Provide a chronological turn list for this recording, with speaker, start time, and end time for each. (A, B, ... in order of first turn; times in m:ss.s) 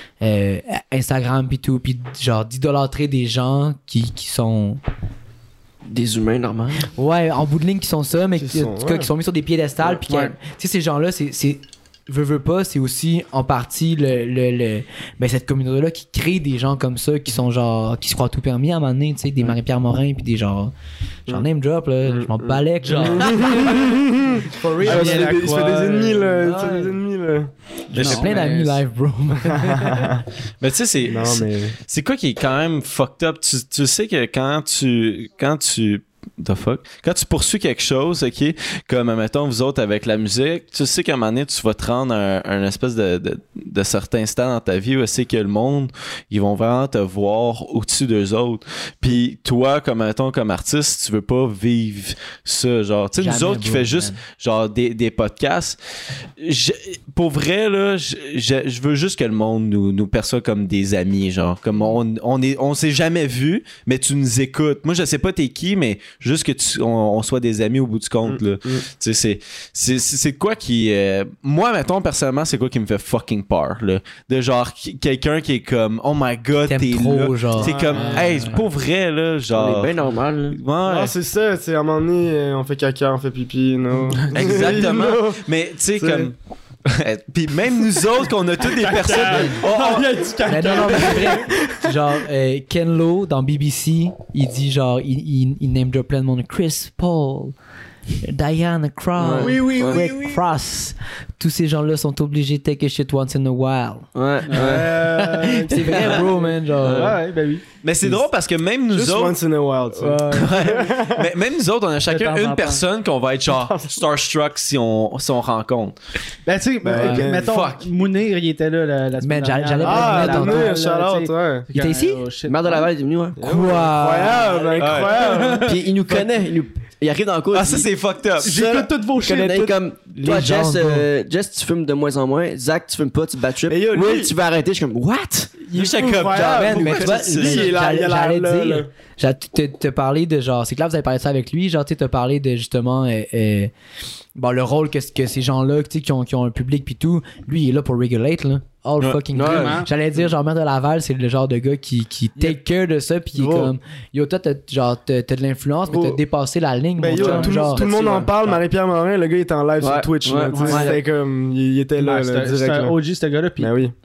0:00.2-0:04.8 A
0:05.8-0:06.9 B
0:06.9-0:20.7 A
0:08.4-0:09.1 C
0:10.1-0:10.4 D
0:21.3-0:23.9 A
0:22.0-0:27.5 C
0:22.8-0:23.9 D
0:24.5-0:26.8 D
0:24.6-0:25.4 A
0:27.9-0:28.5 E
0:28.0-0:28.8 D
0:28.0-0:30.2 A
0:29.4-0:30.2 C
0:30.6-0:55.8 E
0:31.1-0:31.8 C
0:53.2-0:54.2 A
0:56.4-1:19.9 E
1:08.2-1:08.8 C
1:16.7-1:18.6 A
1:17.6-1:18.5 C
1:19.5-1:20.6 B
1:20.5-1:21.1 E
1:20.8-1:25.4 C
1:24.3-1:26.3 E
1:26.0-1:26.3 C
1:26.8-1:31.1 E
1:28.7-1:31.4 D
1:29.7-1:31.8 C
1:30.4-1:37.5 A
1:38.2-1:44.1 A
1:39.2-1:40.0 B
1:39.3-1:40.4 C
1:44.1-1:45.1 B
1:44.5-1:47.6 D
1:44.6-1:47.2 A
1:46.8-1:47.2 B
1:47.8-1:49.4 E
1:48.9-1:51.3 C
1:50.0-1:50.6 D
1:50.3-1:56.0 E
1:52.1-1:52.8 D
1:53.5-1:54.0 C
1:56.4-2:02.9 D
1:56.8-1:57.6 C
1:57.3-1:57.9 E
1:59.2-2:00.7 A
1:59.8-2:01.7 C
2:01.7-2:02.2 A
2:02.4-2:03.4 B
2:03.4-2:06.2 C
2:03.4-2:04.6 A
2:04.8-2:05.2 E
2:05.2-2:05.7 D
2:05.6-2:07.9 B
2:07.5-2:08.5 E
2:08.4-2:09.7 D
2:08.4-2:09.0 C
2:09.2-2:15.7 B
2:10.2-2:11.0 A
2:13.7-2:14.3 C
2:15.7-2:17.7 E
2:15.8-2:18.9 C
2:16.2-2:23.7 A
2:24.4-2:37.8 A
2:29.0-2:29.8 E
2:29.3-2:29.8 B
2:29.4-2:29.9 D
2:33.3-2:33.7 C
2:35.9-2:36.2 C
2:37.0-2:43.0 C
2:37.2-2:37.8 D
2:37.8-2:38.2 B
2:39.8-2:40.9 B
2:40.5-2:41.0 D
2:40.7-2:41.0 A
2:42.0-2:43.7 D
2:43.6-2:43.9 C